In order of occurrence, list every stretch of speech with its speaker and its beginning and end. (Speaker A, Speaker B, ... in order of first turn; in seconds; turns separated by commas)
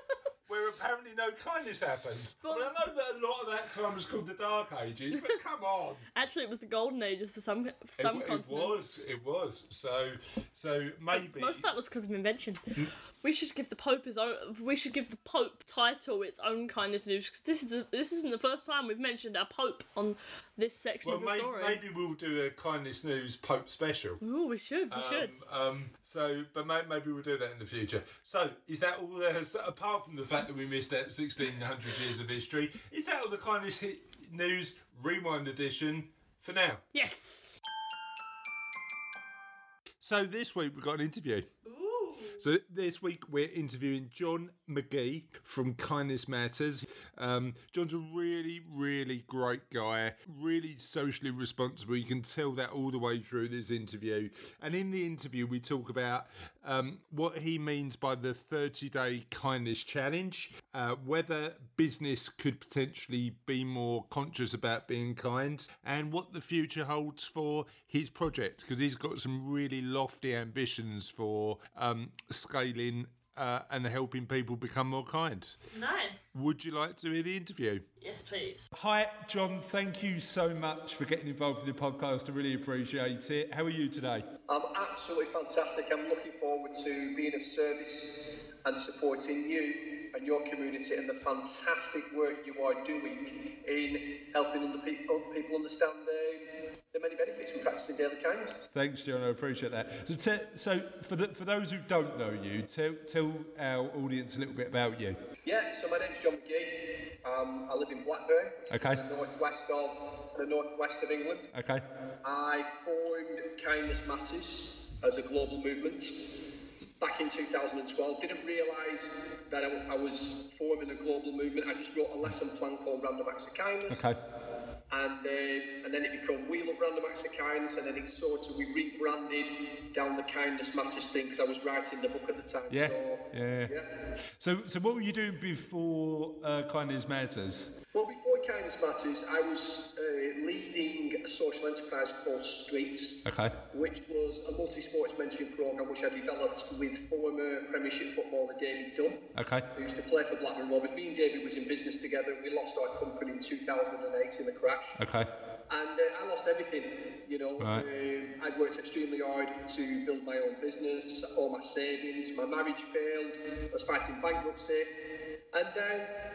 Speaker A: 0.5-6.0, Speaker B: 2.4-2.7, Speaker B: 6.1-9.0, Speaker A: 8.0-11.7, Speaker B: 11.1-21.8, Speaker A: 21.0-24.2, Speaker B: 24.2-25.4, Speaker A: 24.9-36.8, Speaker B: 36.9-37.6, Speaker A: 40.0-41.5, Speaker B: 41.6-42.4, Speaker A: 42.4-75.5, Speaker B: 75.7-76.3, Speaker A: 76.3-77.8, Speaker B: 78.0-78.7, Speaker A: 78.7-84.3, Speaker C: 84.5-98.6, Speaker A: 98.7-105.2, Speaker C: 105.4-111.5, Speaker A: 108.7-109.0, Speaker A: 111.5-111.8, Speaker C: 112.2-116.4, Speaker C: 117.0-124.0, Speaker A: 123.9-124.2, Speaker C: 124.9-133.9, Speaker A: 132.7-133.7, Speaker A: 134.4-137.8, Speaker C: 137.9-155.0, Speaker A: 143.2-143.5, Speaker A: 149.3-149.7, Speaker A: 155.0-155.3, Speaker C: 155.7-164.9, Speaker A: 157.6-157.8, Speaker C: 165.5-166.1